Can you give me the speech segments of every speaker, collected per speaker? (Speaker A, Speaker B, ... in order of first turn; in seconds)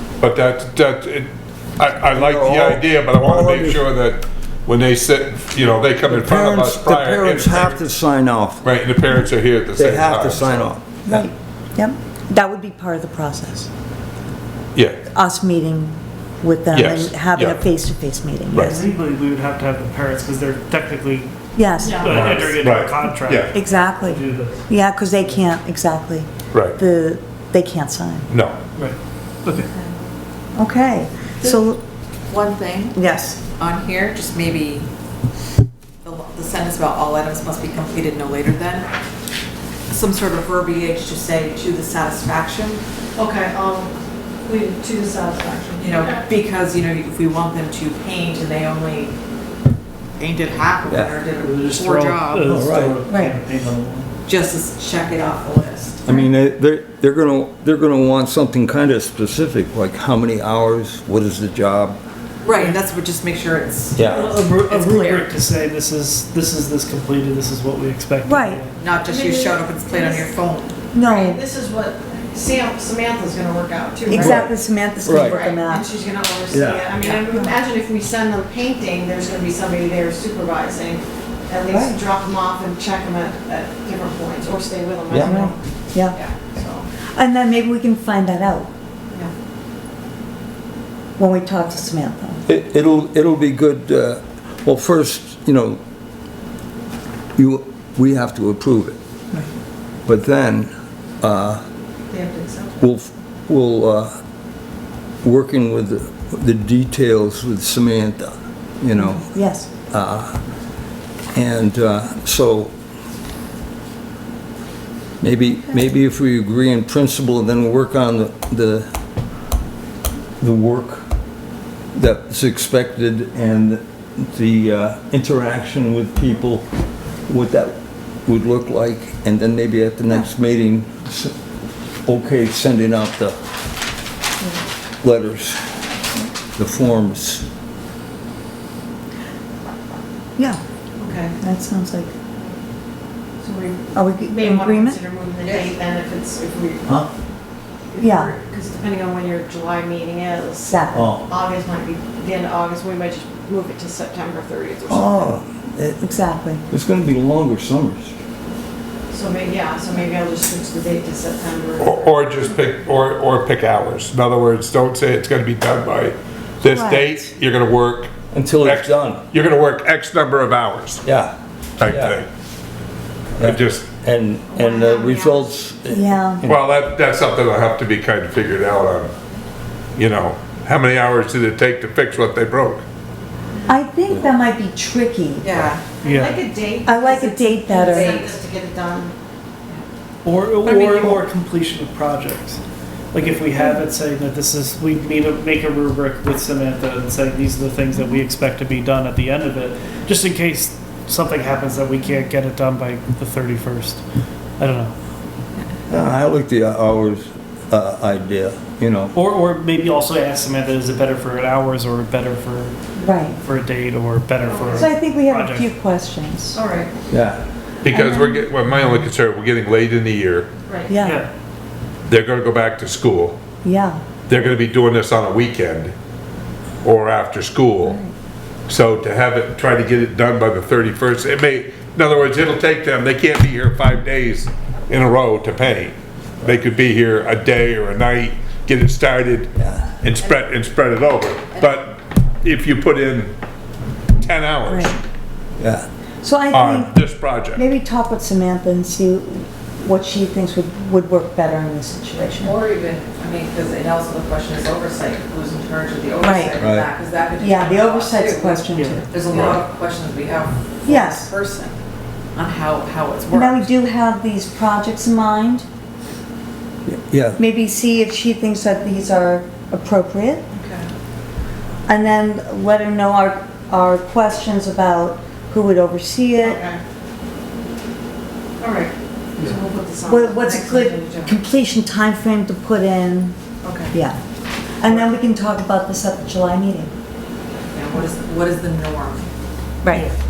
Speaker A: 0.2-7.8, 8.6-10.7, 14.8-15.0, 16.7-17.6, 18.5-18.8, 22.1-23.5, 28.3-28.6, 161.8-171.0, 171.8-172.3, 173.4-173.9, 176.5-179.1, 180.0-182.8, 217.8-220.5, 222.1-223.4, 224.3-225.9, 226.8-228.0, 228.7-239.5, 240.0-243.3, 244.2-245.0, 246.5-247.6
Speaker B: 2.1-3.8, 6.0-8.6, 9.8-11.3, 50.9-51.1, 52.5-53.0, 56.0-62.0, 63.9-64.3, 74.1-75.4, 76.5-76.9, 85.1-85.3, 92.5-95.8, 97.4-99.0, 100.0-101.6, 102.8-104.2, 105.2-109.3, 109.9-110.4, 111.3-112.7, 115.2-118.9, 120.4-121.0, 121.9-126.7, 127.3-131.3, 132.1-133.4, 135.0-135.6, 136.6-137.5, 150.9-151.2, 154.9-156.1, 156.7-158.2, 168.3-169.2, 171.1-171.3, 171.8-172.2, 173.4-176.6, 205.9-209.2, 217.1-217.4, 239.6-239.9, 245.6-245.9, 256.6-256.9, 266.9-267.4
Speaker C: 11.1-13.7, 15.1-18.9, 21.6-22.4, 23.5-28.3, 30.6-31.8, 32.9-33.4, 53.1-53.4, 68.2-68.6, 70.9-71.4, 74.1-75.9, 81.7-82.0, 85.2-86.2, 87.1-88.7, 91.2-92.4, 108.9-109.7, 141.4-142.1, 143.9-145.0, 148.0-148.3, 150.7-151.1, 156.0-156.7, 166.7-167.2, 175.9-176.4, 183.7-185.5, 186.8-188.2, 213.0-213.4, 214.7-216.6, 217.9-218.5, 220.9-221.3, 223.6-224.0, 227.8-228.1, 244.7-244.9, 246.2-246.9, 247.5-252.6, 256.2-256.6, 257.4-259.6, 260.9-261.3, 263.3-265.6, 267.4-270.5, 271.9-276.6, 280.1-283.4, 283.9-284.2, 284.8-286.9, 289.8-290.1
Speaker D: 18.5-21.4, 21.9-24.6, 28.8-29.7, 51.4-54.1, 64.0-68.8, 186.0-186.4, 190.2-192.6, 193.1-204.0, 204.6-204.9, 209.1-215.7, 221.0-221.3, 258.8-259.0
Speaker E: 21.8-22.2, 43.2-43.9, 44.5-46.3, 69.0-70.3, 71.0-74.4, 75.1-85.6, 86.4-86.9, 102.1-102.8, 141.0-141.4, 143.4-147.1, 147.9-155.4, 159.1-162.1, 174.5-175.5, 186.0-189.1, 214.4-214.9, 216.6-216.9, 276.4-276.8, 278.6-281.4, 283.6-283.9
Speaker F: 32.3-33.0, 33.6-34.9, 36.0-38.9, 39.9-42.8, 45.8-49.1, 50.2-52.6, 54.2-56.0, 62.4-65.3, 68.8-70.8, 77.0-77.5, 145.4-145.7, 185.4-185.9, 187.9-188.4, 190.6-191.1, 252.4-261.8, 262.4-263.7, 287.7-289.3